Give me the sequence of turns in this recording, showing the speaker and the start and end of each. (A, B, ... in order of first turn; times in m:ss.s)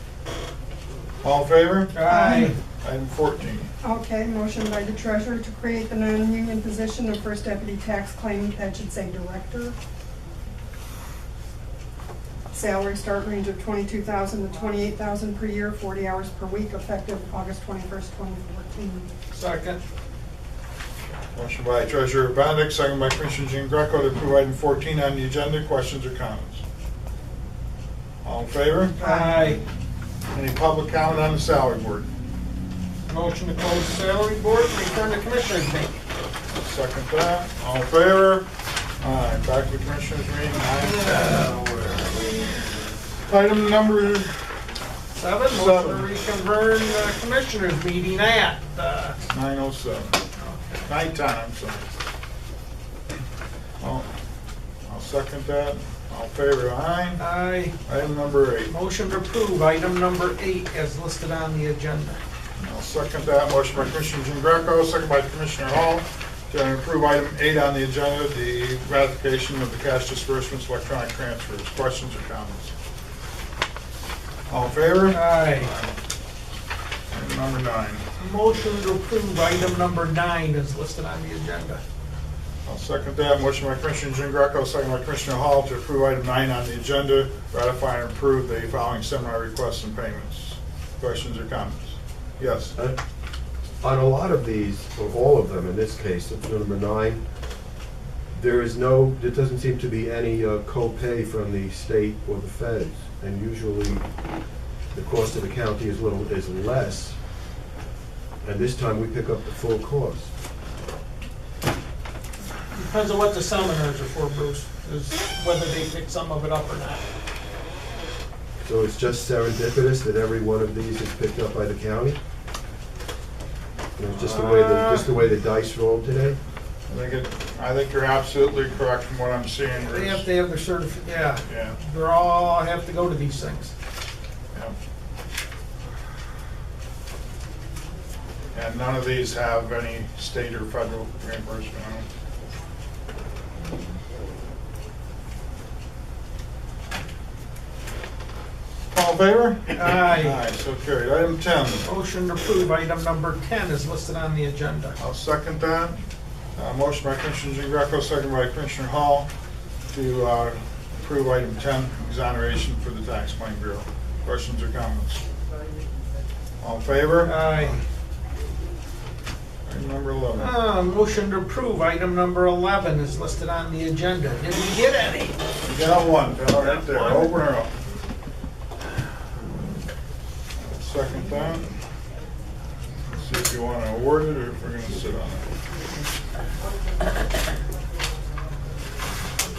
0:01.2-0:03.7 A
0:01.9-0:02.5 B
0:02.1-0:02.5 C
0:03.8-0:09.8 C
0:12.5-0:19.1 C
0:19.3-0:19.8 B
0:21.3-0:26.6 A
0:28.2-0:29.1 A
0:29.0-0:29.6 B
0:29.0-0:29.6 C
0:30.3-0:32.1 A
0:33.1-0:36.0 B
0:36.5-0:38.5 A
0:39.0-0:41.5 A
0:40.8-0:42.6 B
0:43.3-0:44.5 A
0:45.1-0:49.2 B
0:45.5-0:46.1 A
0:49.3-0:50.2 A
0:50.4-0:50.8 B
0:50.9-0:51.9 A
0:53.8-0:54.1 A
0:54.9-0:57.2 A
0:57.2-0:57.8 B
0:57.8-0:58.7 A
0:58.7-1:02.2 B
1:02.6-1:12.7 A
1:14.5-1:16.0 A
1:15.1-1:15.7 B
1:17.1-1:18.0 A
1:18.2-1:21.8 B
1:22.7-1:32.7 A
1:33.8-1:37.2 D
1:38.3-1:44.0 D
1:44.9-1:47.2 D
1:48.4-1:50.3 D
1:52.7-1:57.0 B
1:58.6-2:02.2 D
2:04.0-2:06.4 D
2:04.2-2:05.1 B
2:06.9-2:10.2 A
2:09.8-2:13.7 B
2:11.5-2:11.8 A
2:18.5-2:22.1 A
2:28.9-2:31.9 A
2:29.8-2:30.4 B
2:31.8-2:35.0 B
2:35.0-2:36.0 A
2:36.6-2:39.3 A
2:39.9-2:45.2 A
2:46.6-2:47.8 A
2:47.2-2:47.8 B
2:49.7-2:50.5 A
2:50.4-2:55.4 B
2:55.6-2:57.7 A
2:56.6-2:57.4 B
3:00.6-3:01.7 A
3:03.1-3:05.5 A